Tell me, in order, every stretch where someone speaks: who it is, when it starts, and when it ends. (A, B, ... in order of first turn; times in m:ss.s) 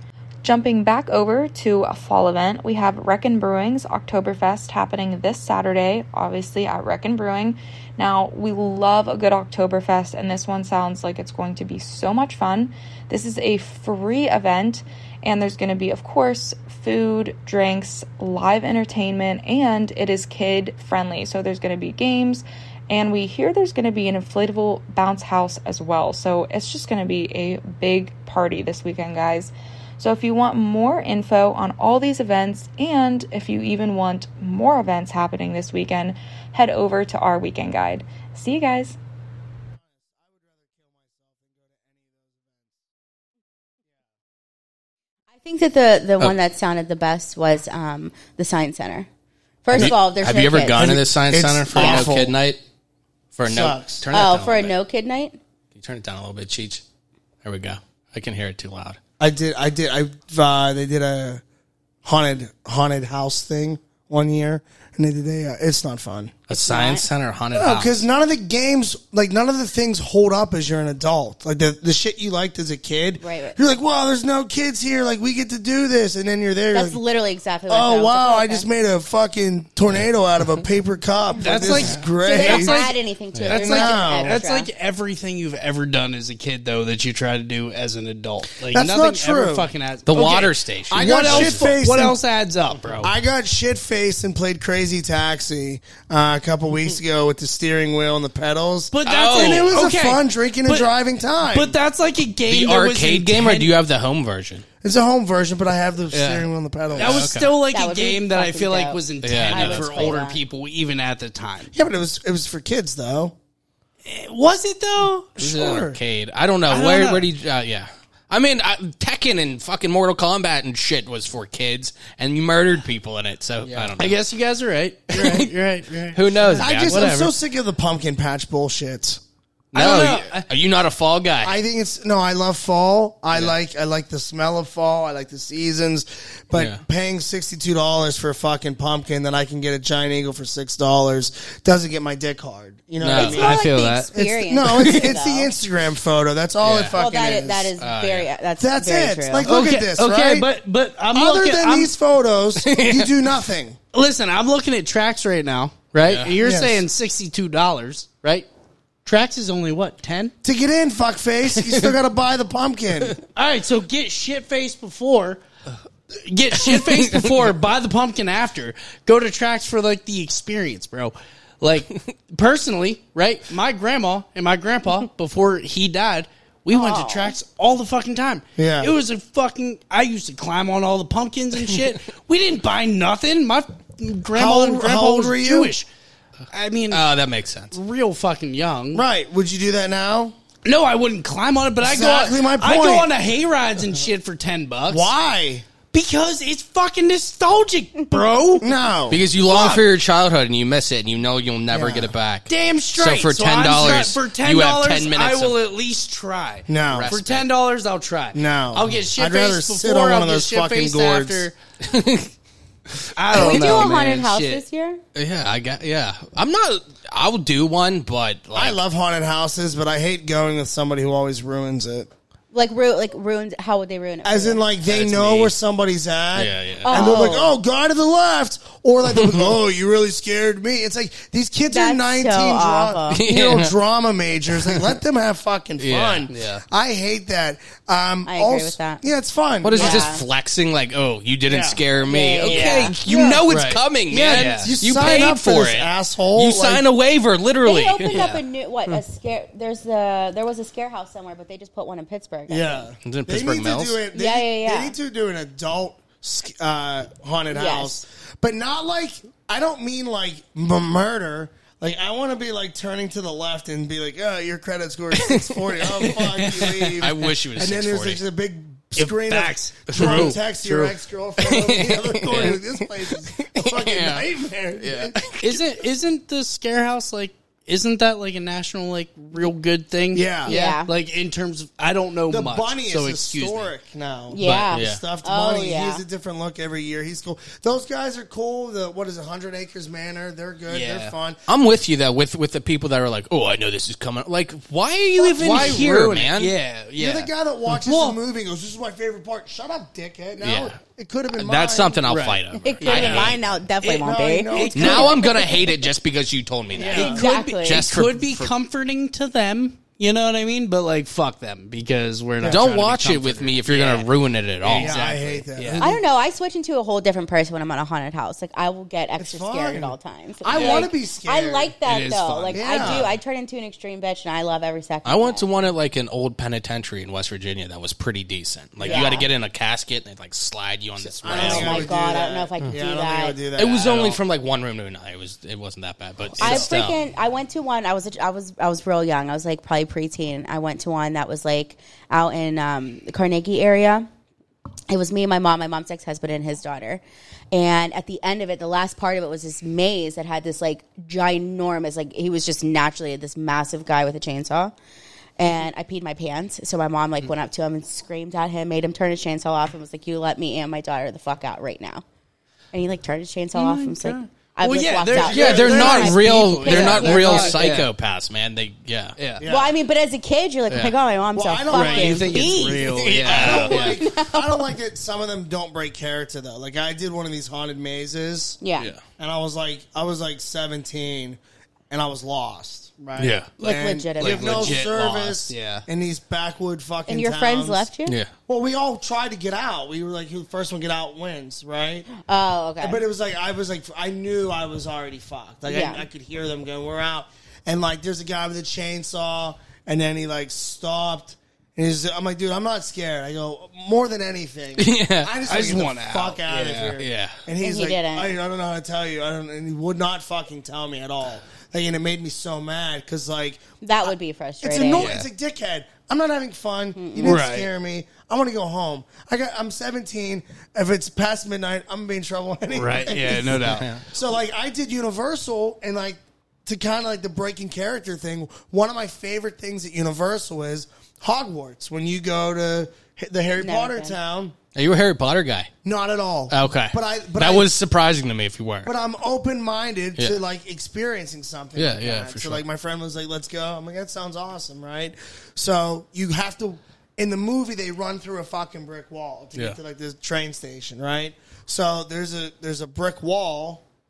0:00.4-0:39.0 A
0:39.8-0:42.8 B
0:45.4-0:49.1 C
0:49.6-0:50.9 C
0:49.7-0:52.6 D
0:50.8-0:52.4 B
0:53.4-0:54.7 D
0:53.5-0:54.0 B
0:54.1-0:55.4 C
0:55.8-0:56.8 D
0:57.4-0:59.0 D
0:59.2-1:01.4 B
1:02.0-1:06.4 B
1:06.5-1:08.0 D
1:06.5-1:07.1 C
1:07.6-1:17.0 B
1:13.2-1:13.6 C
1:16.7-1:18.7 C
1:17.7-1:22.8 B
1:21.4-1:23.0 E
1:21.7-1:22.0 D
1:22.2-1:24.7 C
1:23.5-1:33.1 E
1:23.5-1:24.4 B
1:28.7-1:29.7 B
1:30.1-1:31.7 D
1:30.9-1:32.2 B
1:33.0-1:41.8 B
1:38.9-1:40.9 E
1:39.1-1:39.8 D
1:41.4-1:43.7 E
1:42.5-1:44.7 D
1:44.8-1:47.4 B
1:46.1-1:46.4 E
1:46.9-1:47.6 D
1:47.0-1:51.7 E
1:47.7-1:50.4 C
1:49.2-1:50.2 D
1:51.7-1:53.3 B
1:54.0-1:55.8 E
1:55.4-2:04.2 D
1:55.5-1:56.0 B
1:56.7-1:57.3 E
2:03.7-2:07.3 E
2:05.1-2:05.5 D
2:06.1-2:07.2 D
2:06.6-2:09.2 B
2:09.7-2:11.6 D
2:09.7-2:10.5 E
2:11.4-2:27.7 B
2:16.5-2:16.8 D
2:23.0-2:23.5 D
2:23.2-2:24.1 E
2:23.2-2:25.5 C
2:26.6-2:27.0 D
2:27.0-2:29.5 C
2:27.8-2:28.3 D
2:28.6-2:30.5 B
2:29.5-2:31.9 E
2:31.1-2:33.8 B
2:32.6-2:33.2 D
2:33.9-2:38.5 E
2:36.0-2:36.4 D
2:36.4-2:36.8 B
2:39.0-2:40.3 E
2:40.4-2:43.2 B
2:43.4-2:45.4 E
2:46.1-3:05.9 E
2:46.7-2:47.3 D
2:56.7-2:57.4 C
2:58.6-2:58.9 B
3:04.4-3:05.7 B
3:06.5-3:07.0 E
3:06.9-3:07.7 D
3:07.7-3:09.0 E
3:08.9-3:10.4 B
3:10.6-3:15.1 E
3:11.8-3:13.1 B
3:14.9-3:15.7 B
3:15.9-3:18.7 E
3:18.6-3:19.2 B
3:19.1-3:25.6 D
3:19.4-3:19.8 E
3:21.7-3:22.1 B
3:22.5-3:31.6 E
3:26.7-3:27.2 B
3:26.9-3:27.5 D
3:28.3-3:31.5 B
3:31.8-3:32.3 D
3:33.0-3:33.9 D
3:33.2-3:34.6 E
3:33.3-3:35.0 C
3:35.2-3:38.8 D
3:38.6-3:42.1 B
3:42.5-3:44.6 C
3:44.2-4:00.1 B
3:44.9-3:45.5 D
3:46.4-3:47.2 D
3:46.8-3:47.5 C
3:49.1-3:49.6 D
3:51.7-3:53.2 C
3:53.1-3:53.7 D
3:55.8-3:56.3 D
3:56.3-3:56.6 E
3:58.3-3:59.0 C
3:59.6-4:08.3 D
3:59.7-4:00.2 C
4:01.5-4:01.8 B
4:02.1-4:03.0 C
4:02.4-4:02.9 E
4:03.1-4:03.6 B
4:03.5-4:04.8 E
4:04.1-4:06.8 B
4:07.6-4:12.9 C
4:08.1-4:08.4 E
4:12.5-4:35.2 B
4:13.0-4:14.0 D
4:14.1-4:15.0 C
4:17.5-4:18.0 C
4:26.4-4:27.0 E
4:27.0-4:28.2 D
4:29.0-4:31.0 E
4:29.9-4:30.4 D
4:31.5-4:32.7 D
4:33.3-4:34.2 D
4:34.8-4:35.6 D
4:35.4-4:43.7 E
4:40.1-4:40.6 B
4:40.5-4:40.9 C
4:42.3-4:51.4 B
4:44.3-4:46.0 C
4:44.7-4:45.0 D
4:50.7-4:51.1 E
4:51.5-4:56.5 D
4:55.3-4:58.2 E
4:55.4-4:55.8 B
4:57.0-5:02.0 B
5:00.4-5:00.8 D
5:01.3-5:03.4 D
5:02.1-5:03.4 E
5:02.6-5:05.6 C
5:02.8-5:05.2 B
5:04.5-5:05.2 E
5:04.8-5:08.5 D
5:06.8-5:07.8 C
5:06.8-5:07.2 B
5:06.9-5:14.1 E
5:12.4-5:15.4 D
5:14.6-5:15.9 E
5:14.7-5:16.0 B
5:15.8-5:25.4 C
5:19.2-5:21.7 B
5:21.8-5:23.1 E
5:22.5-5:23.1 B
5:25.0-5:31.9 D
5:28.8-5:29.2 B
5:28.9-5:29.3 C
5:31.1-5:34.2 B
5:31.3-5:33.4 C
5:33.6-5:37.0 D
5:36.4-5:36.7 B
5:36.4-5:44.1 C
5:44.9-5:54.8 C
5:55.4-6:02.0 C
6:02.7-6:07.7 C
6:03.5-6:07.9 E
6:05.2-6:05.9 B
6:05.3-6:09.2 D
6:09.2-6:09.5 E
6:09.4-6:09.7 B
6:09.5-6:12.9 C
6:11.4-6:18.6 B
6:11.7-6:14.0 E
6:12.9-6:13.9 D
6:13.4-6:14.7 C
6:18.6-6:18.9 C
6:19.2-6:21.4 B
6:21.9-6:27.9 B
6:23.2-6:23.5 D
6:23.6-6:24.8 C
6:24.2-6:25.8 E
6:27.1-6:28.2 C
6:28.1-6:28.3 D
6:28.5-6:32.1 B
6:32.2-6:33.0 C
6:32.8-7:14.6 B
6:35.7-6:36.1 C
6:44.8-6:45.3 D
6:45.5-6:47.0 E
6:47.0-6:47.4 D
6:47.6-6:48.3 C
6:53.8-6:55.1 C
6:55.0-6:55.3 E
6:57.0-6:57.4 C
6:57.2-6:57.7 E
7:02.7-7:03.9 E
7:03.6-7:04.0 D
7:13.6-7:14.2 C
7:14.8-7:15.7 D
7:15.8-7:17.7 B
7:16.5-7:18.9 D
7:18.8-7:33.8 B
7:21.8-7:22.6 D